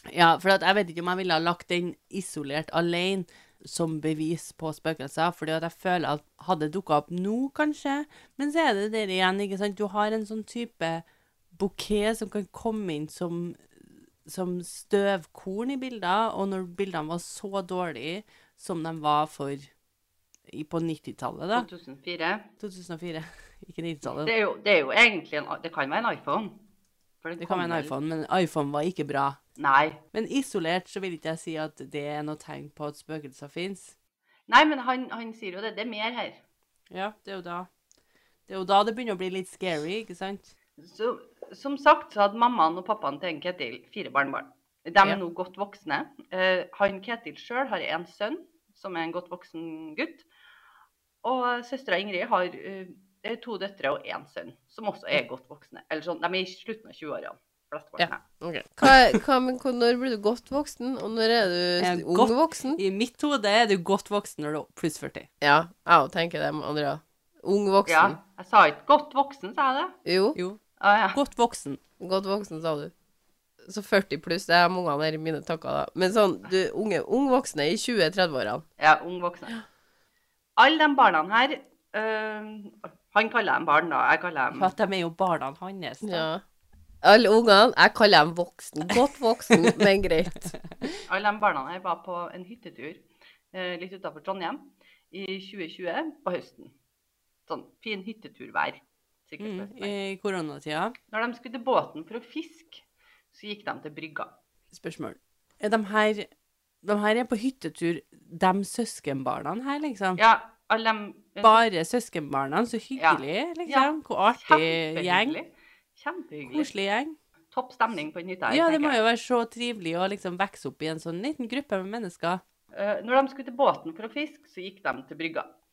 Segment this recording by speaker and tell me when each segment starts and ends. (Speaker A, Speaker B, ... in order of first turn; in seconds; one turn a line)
Speaker A: 0.1-19.7
Speaker A: 20.5-21.7
Speaker B: 21.6-22.5
Speaker A: 22.6-24.3
Speaker B: 24.1-26.6
Speaker B: 27.2-27.9
Speaker A: 27.4-29.4
Speaker B: 29.6-30.0
Speaker A: 30.1-34.0
Speaker B: 34.5-36.4
Speaker A: 36.9-37.7
Speaker A: 38.5-40.5
Speaker B: 40.8-50.3
Speaker B: 51.2-58.2
Speaker C: 58.0-62.8
Speaker A: 61.8-65.3
Speaker C: 65.4-68.2
Speaker B: 67.9-70.0
Speaker C: 70.1-70.4
Speaker A: 70.3-70.6
Speaker B: 70.8-71.2
Speaker A: 71.2-71.8
Speaker C: 72.0-72.9
Speaker C: 73.7-78.6
Speaker B: 78.8-79.6
Speaker B: 80.6-84.7
Speaker A: 84.5-86.3
Speaker C: 86.0-86.4
Speaker C: 87.0-90.5
Speaker B: 91.1-96.7
Speaker B: 97.5-99.9
Speaker A: 99.4-101.0
Speaker B: 101.1-104.3
Speaker A: 104.7-106.3
Speaker A: 106.8-110.2
Speaker B: 110.2-111.6
Speaker A: 111.4-115.4
Speaker B: 113.0-116.7
Speaker A: 116.5-117.2
Speaker B: 117.5-119.0
Speaker A: 118.5-122.4
Speaker B: 122.7-125.5